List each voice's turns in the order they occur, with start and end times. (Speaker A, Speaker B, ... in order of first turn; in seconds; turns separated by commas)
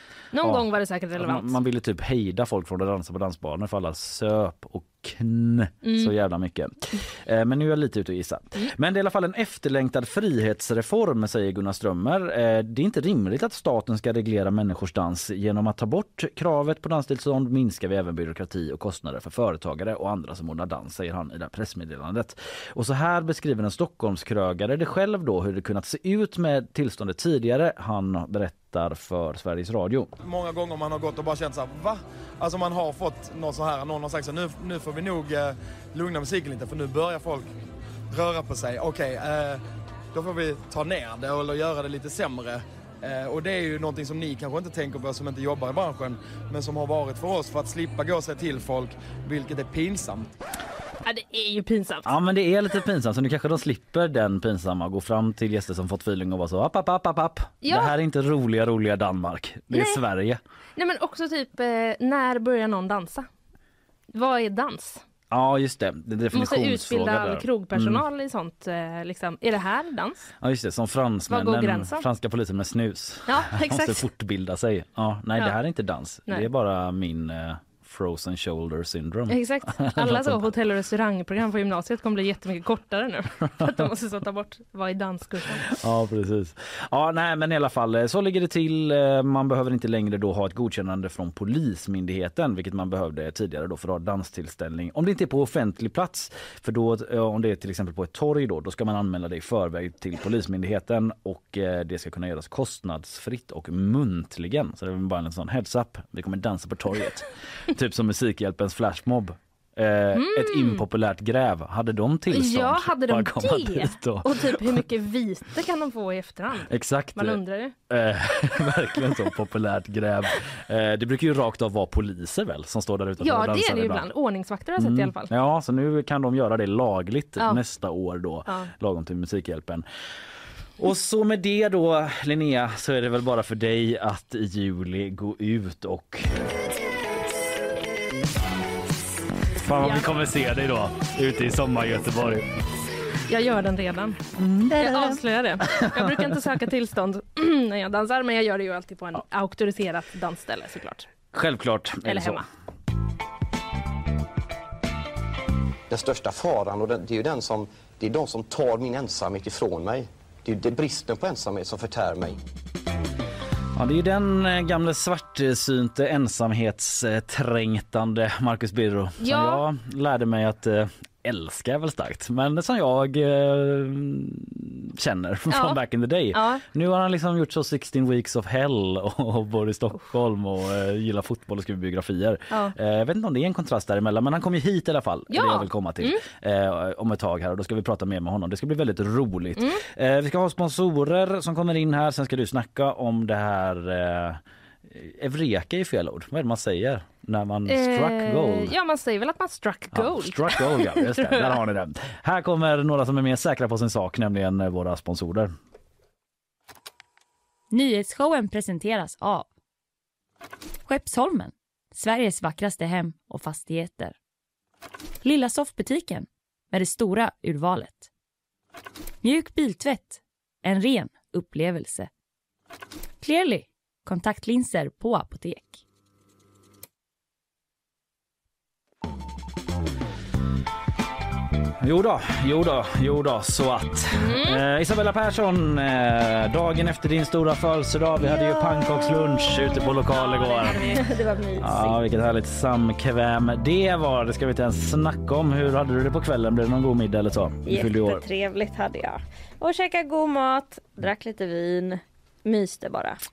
Speaker A: 0.3-1.6, Speaker B: 0.4-30.1, Speaker A: 5.8-6.1, Speaker C: 30.2-37.5, Speaker C: 38.1-50.3, Speaker A: 51.0-52.1, Speaker B: 52.0-60.4, Speaker A: 57.6-57.9, Speaker A: 59.7-60.0, Speaker A: 60.8-63.3, Speaker A: 64.1-65.0, Speaker B: 65.3-68.0, Speaker A: 66.3-70.3, Speaker B: 70.4-80.5, Speaker A: 71.3-72.0, Speaker A: 73.3-74.0, Speaker A: 79.3-85.7, Speaker B: 85.7-114.8, Speaker A: 110.1-110.8, Speaker A: 112.3-117.8, Speaker B: 116.7-124.1, Speaker A: 123.2-125.3, Speaker B: 124.8-129.9, Speaker B: 130.8-136.6, Speaker B: 139.6-142.5, Speaker A: 139.8-140.1, Speaker A: 143.3-144.2, Speaker B: 144.4-146.4, Speaker A: 144.7-151.1, Speaker B: 151.3-152.4, Speaker A: 152.1-152.4, Speaker D: 155.9-162.4, Speaker B: 163.8-198.7, Speaker A: 169.2-169.6, Speaker A: 175.5-175.8, Speaker A: 176.3-176.6, Speaker A: 182.5-182.8, Speaker A: 185.3-186.2, Speaker A: 197.7-201.6, Speaker B: 199.9-205.5, Speaker E: 207.7-209.5, Speaker E: 210.9-214.1, Speaker E: 215.2-218.1, Speaker E: 219.2-222.1, Speaker E: 223.2-225.8, Speaker B: 231.8-241.0, Speaker A: 234.2-234.6, Speaker A: 238.4-239.4, Speaker F: 240.2-242.0, Speaker B: 241.6-248.2, Speaker F: 247.7-253.2